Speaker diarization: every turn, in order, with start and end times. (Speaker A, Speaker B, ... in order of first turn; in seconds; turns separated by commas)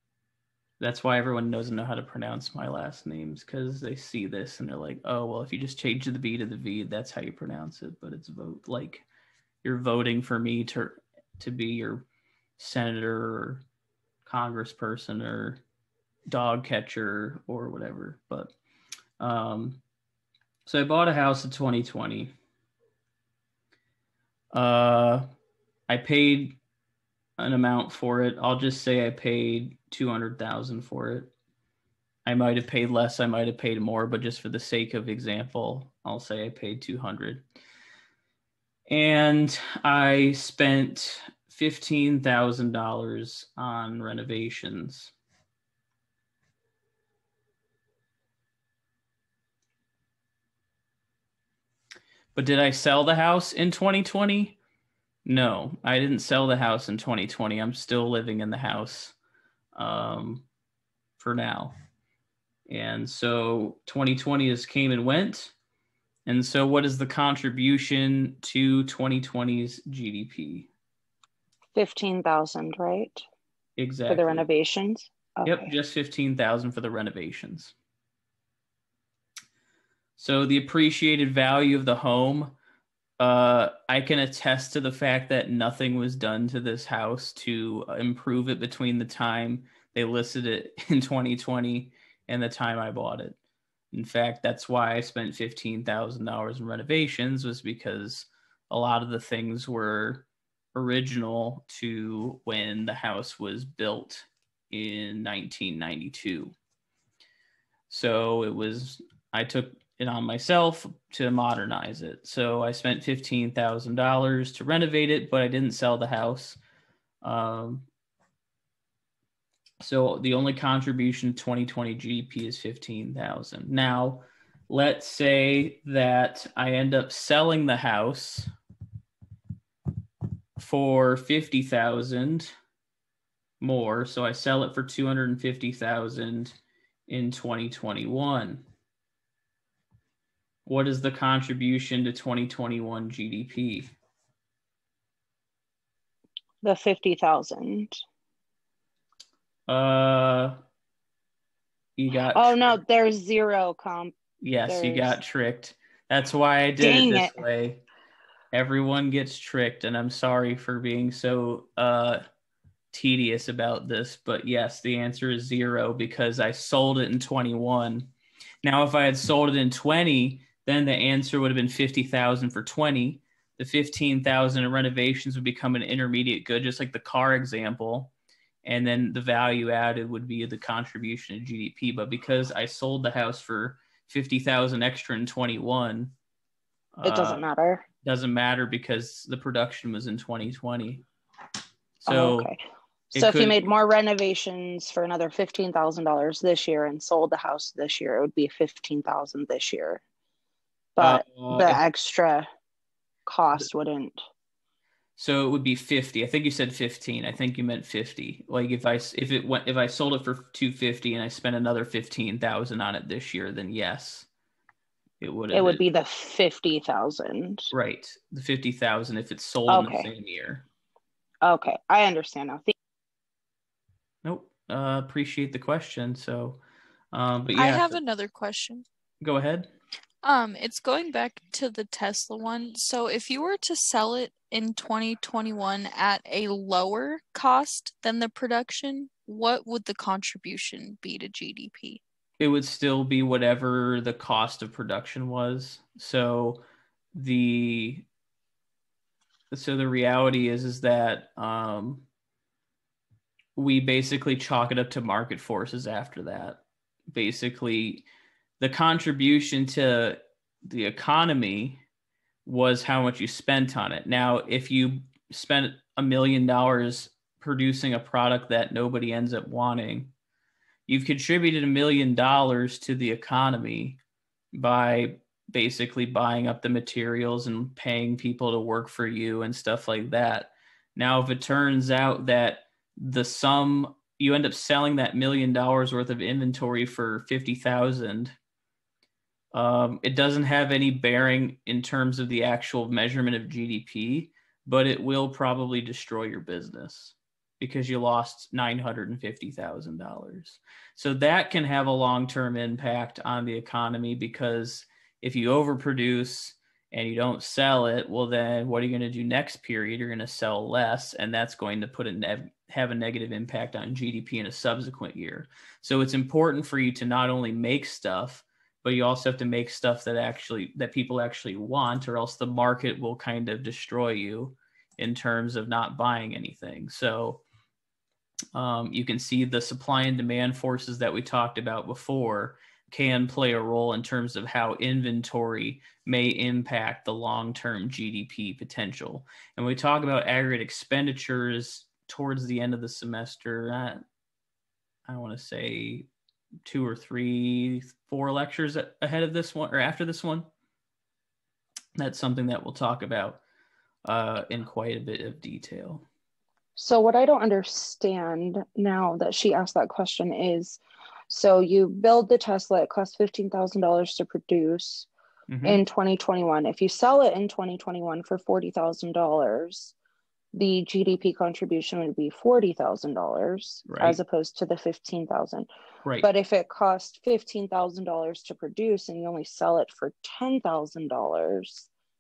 Speaker A: 0.8-9.0, Speaker A: 9.6-12.1, Speaker A: 12.6-13.6, Speaker A: 14.2-15.6, Speaker A: 16.3-18.5, Speaker A: 19.2-19.8, Speaker A: 20.6-22.3, Speaker A: 24.5-25.3, Speaker A: 25.9-26.6, Speaker A: 27.4-31.3, Speaker A: 32.2-37.4, Speaker A: 38.9-45.1, Speaker A: 52.3-54.6, Speaker A: 55.2-59.1, Speaker A: 59.7-60.5, Speaker A: 61.2-61.7, Speaker A: 62.7-65.5, Speaker A: 66.2-70.7, Speaker B: 71.7-73.2, Speaker A: 73.8-74.5, Speaker B: 74.1-75.7, Speaker A: 75.4-77.7, Speaker A: 80.2-82.5, Speaker A: 83.2-93.4, Speaker A: 93.9-106.5, Speaker A: 107.9-116.6, Speaker A: 117.2-117.8, Speaker A: 119.8-128.5, Speaker A: 130.6-132.5, Speaker A: 133.6-136.6, Speaker A: 137.1-138.6, Speaker A: 140.7-143.9, Speaker B: 146.6-148.0, Speaker A: 149.7-150.6, Speaker A: 152.0-152.8, Speaker B: 152.3-154.1, Speaker A: 154.4-157.8, Speaker B: 154.7-155.2, Speaker B: 156.8-157.4, Speaker A: 158.5-162.2, Speaker A: 162.9-168.1, Speaker A: 168.6-178.1, Speaker A: 178.6-186.1, Speaker A: 186.9-187.4, Speaker B: 187.0-187.8, Speaker A: 188.0-191.0, Speaker A: 192.0-192.5, Speaker B: 192.1-192.6, Speaker B: 193.1-200.0, Speaker A: 193.1-193.6, Speaker B: 200.9-202.5, Speaker A: 201.0-201.8, Speaker B: 203.2-204.2, Speaker A: 205.2-214.3, Speaker A: 215.2-215.8, Speaker B: 215.5-217.7, Speaker A: 217.7-220.7, Speaker B: 219.7-220.1, Speaker B: 221.4-222.7, Speaker A: 224.2-226.6, Speaker A: 227.1-228.0, Speaker C: 227.5-228.8, Speaker A: 229.2-229.7, Speaker C: 230.2-242.0, Speaker A: 242.4-246.6, Speaker A: 247.1-248.1, Speaker A: 249.5-252.1, Speaker A: 253.6-256.6, Speaker A: 257.1-258.0, Speaker A: 258.6-261.8, Speaker A: 262.4-270.1, Speaker A: 270.9-274.0, Speaker A: 274.5-288.3, Speaker A: 289.5-327.4, Speaker A: 328.5-344.0, Speaker A: 345.1-346.1, Speaker A: 346.6-350.5, Speaker A: 352.0-353.4, Speaker A: 354.0-356.0, Speaker B: 356.8-365.1, Speaker A: 365.5-365.8, Speaker B: 365.6-369.9, Speaker B: 370.5-375.7, Speaker A: 373.9-374.2, Speaker B: 376.2-381.9